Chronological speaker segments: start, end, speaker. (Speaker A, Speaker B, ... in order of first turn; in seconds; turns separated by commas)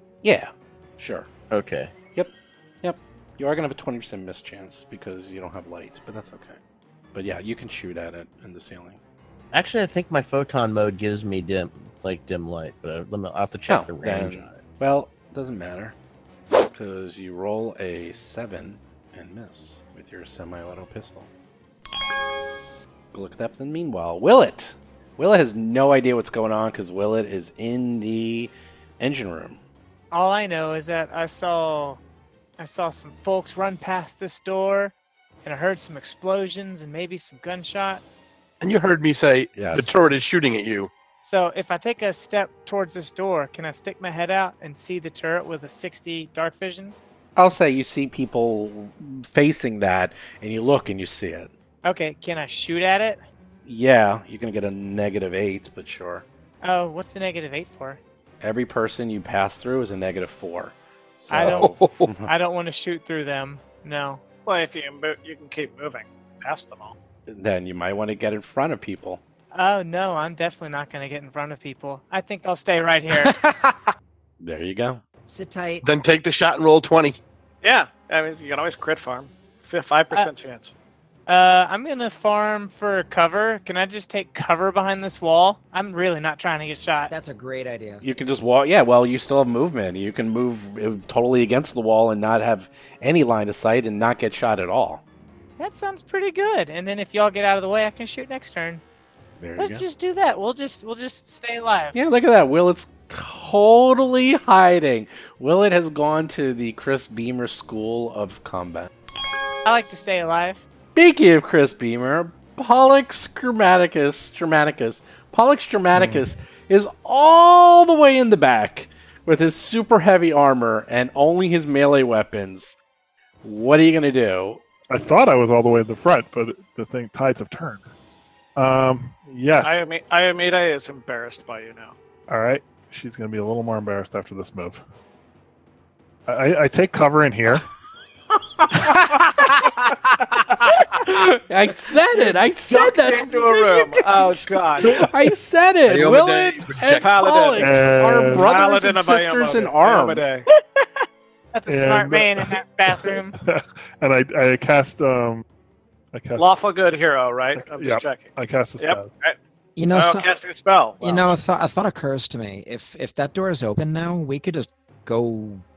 Speaker A: 0.2-1.3, Speaker B: 1.5-1.9, Speaker A: 2.8-6.6, Speaker A: 7.1-9.0, Speaker B: 9.5-14.6, Speaker A: 13.7-16.0, Speaker A: 16.7-21.3, Speaker A: 23.1-29.6, Speaker C: 30.1-32.0, Speaker C: 32.6-38.0, Speaker D: 38.6-40.9, Speaker A: 39.5-39.9, Speaker C: 41.2-47.0, Speaker A: 47.4-51.5, Speaker C: 51.9-53.2, Speaker A: 53.6-56.2, Speaker C: 56.6-58.0, Speaker A: 58.4-62.3, Speaker C: 61.3-64.2, Speaker D: 61.5-62.1, Speaker E: 64.5-67.0, Speaker A: 67.3-69.2, Speaker C: 69.5-73.3, Speaker A: 73.1-73.9, Speaker A: 74.4-75.0, Speaker F: 75.3-75.9, Speaker D: 75.8-77.2, Speaker E: 77.6-80.7, Speaker C: 81.3-87.1, Speaker F: 87.1-88.0, Speaker A: 88.0-95.0, Speaker C: 95.6-98.8, Speaker A: 99.4-99.8, Speaker C: 99.6-102.0, Speaker A: 101.9-108.9, Speaker C: 109.7-110.6, Speaker A: 111.0-122.8, Speaker G: 115.9-116.3, Speaker A: 123.4-124.6, Speaker G: 124.9-127.8, Speaker G: 128.6-129.8, Speaker E: 129.6-131.9, Speaker G: 132.3-134.8, Speaker G: 136.3-137.7, Speaker A: 138.6-140.0, Speaker A: 140.7-150.3, Speaker E: 142.7-145.0, Speaker G: 144.8-145.1, Speaker D: 145.9-147.1, Speaker E: 147.0-150.5, Speaker G: 147.6-148.5, Speaker C: 151.5-153.3, Speaker G: 151.7-155.4, Speaker G: 156.1-156.8, Speaker E: 156.4-159.4, Speaker G: 157.6-159.1, Speaker F: 159.8-160.3, Speaker E: 159.9-161.3, Speaker F: 161.0-165.6